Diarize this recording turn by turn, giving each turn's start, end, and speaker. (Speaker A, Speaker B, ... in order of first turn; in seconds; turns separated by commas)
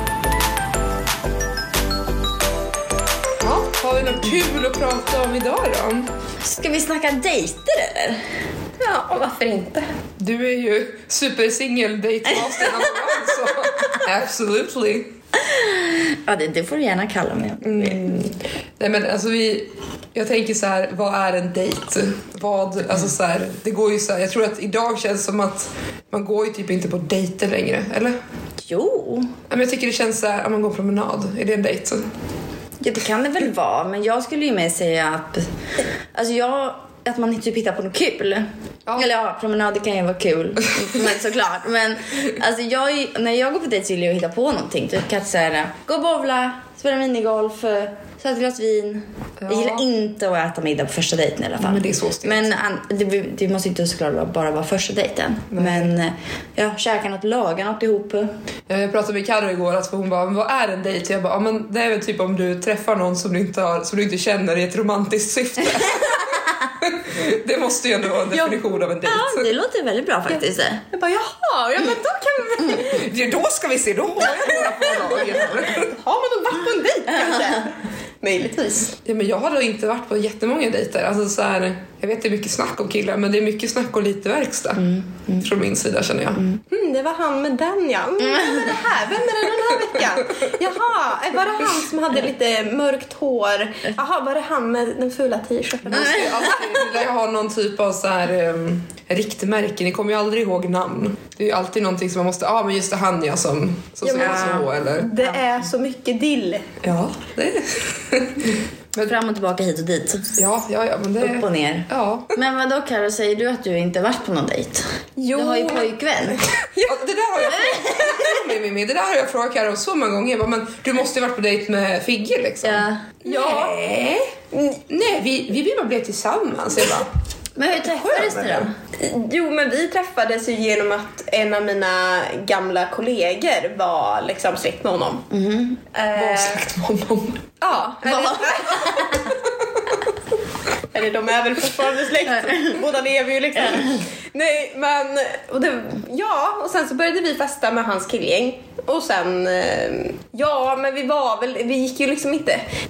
Speaker A: 3.4-6.1, Speaker B: 6.4-8.2, Speaker C: 8.8-9.8, Speaker A: 10.2-15.1, Speaker B: 12.3-13.9, Speaker B: 15.3-18.1, Speaker A: 17.6-28.1, Speaker B: 28.6-29.3, Speaker A: 29.5-32.0, Speaker B: 32.8-35.5, Speaker B: 36.1-58.3, Speaker A: 49.4-49.8, Speaker A: 51.6-52.5, Speaker A: 55.5-55.9, Speaker A: 58.7-69.5, Speaker B: 68.3-70.8, Speaker C: 70.3-73.1, Speaker A: 72.8-75.9, Speaker C: 74.3-78.9, Speaker A: 79.0-86.4, Speaker B: 84.8-85.5, Speaker C: 86.7-96.7, Speaker B: 88.2-88.8, Speaker A: 95.9-105.1, Speaker B: 96.0-96.5, Speaker C: 104.0-106.7, Speaker B: 104.2-104.7, Speaker A: 106.8-109.2, Speaker B: 109.0-110.4, Speaker A: 110.4-112.3, Speaker B: 111.2-116.4, Speaker C: 115.2-115.9, Speaker C: 116.6-117.0, Speaker A: 116.8-124.3, Speaker B: 117.5-118.3, Speaker B: 122.6-123.1, Speaker C: 123.2-123.8, Speaker C: 124.5-124.8, Speaker A: 124.9-127.1, Speaker B: 127.5-128.7, Speaker A: 127.7-128.7, Speaker C: 129.0-135.3, Speaker B: 135.3-135.8, Speaker C: 135.9-136.7, Speaker A: 136.1-137.4, Speaker C: 137.6-139.4, Speaker B: 138.0-139.3, Speaker C: 140.9-152.6, Speaker B: 142.4-142.8, Speaker B: 143.6-144.0